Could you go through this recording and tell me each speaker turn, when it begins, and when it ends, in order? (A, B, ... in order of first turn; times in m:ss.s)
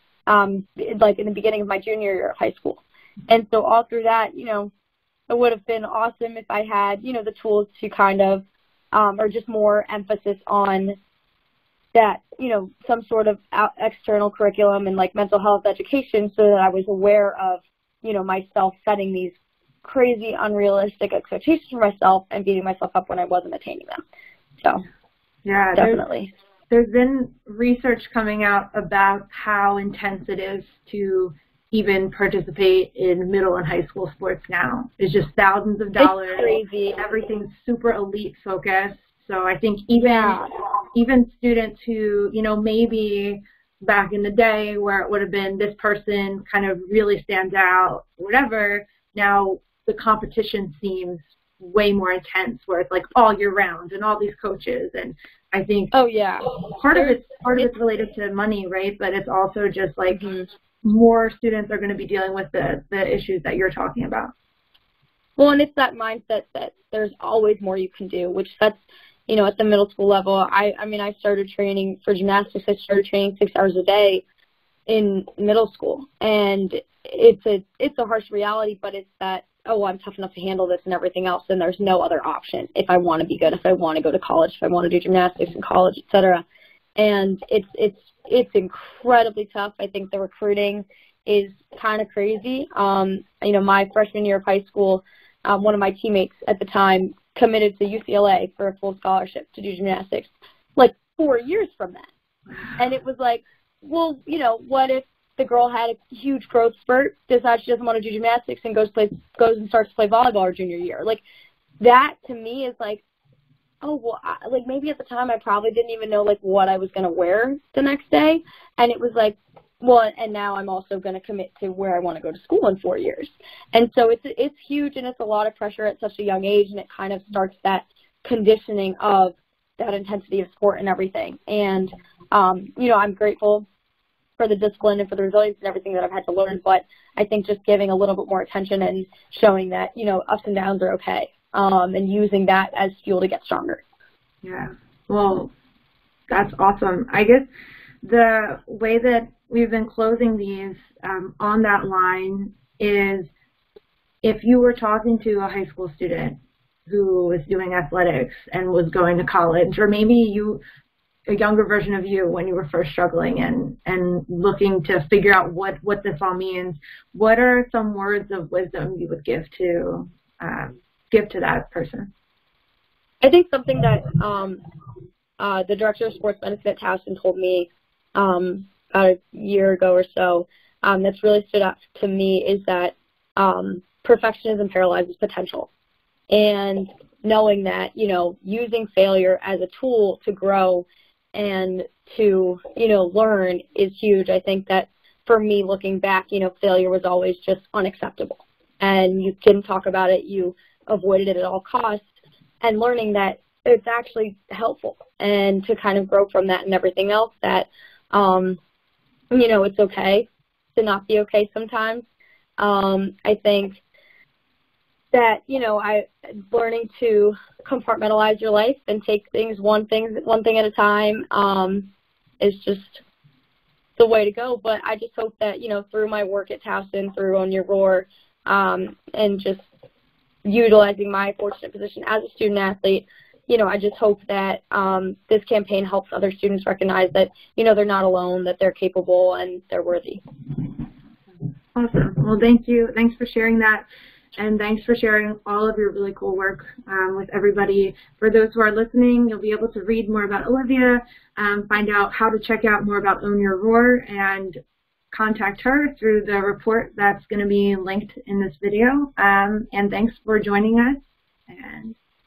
0:00.3-0:04.7 A
0:05.3-0:11.0 A
0:11.9-0:24.0 A
0:25.4-0:26.0 B
0:25.8-0:26.3 A
0:26.7-0:40.4 B
0:36.0-0:37.0 A
0:40.0-0:40.5 A
0:40.9-0:55.9 B
0:55.9-0:57.7 A
0:56.6-1:00.2 B
1:00.1-1:00.5 A
1:00.8-1:04.3 B
1:05.4-1:14.2 A
1:14.9-1:26.4 A
1:27.0-1:42.1 A
1:42.5-1:42.8 B
1:42.8-1:51.2 A
1:51.8-1:53.0 A
1:53.8-2:13.7 A
2:14.4-2:23.8 A
2:24.4-2:25.5 B
2:26.3-2:27.5 B
2:28.0-2:33.3 B
2:34.2-2:40.6 B
2:41.3-2:52.1 B
2:53.2-2:54.6 A
2:55.4-3:05.7 A
3:06.3-3:28.6 A
3:29.3-3:32.0 A
3:32.6-3:33.8 A
3:35.1-3:41.9 A
3:42.4-3:43.0 A
3:44.0-3:49.7 A
3:50.4-4:00.2 A
4:01.7-4:14.6 B
4:15.1-4:22.0 B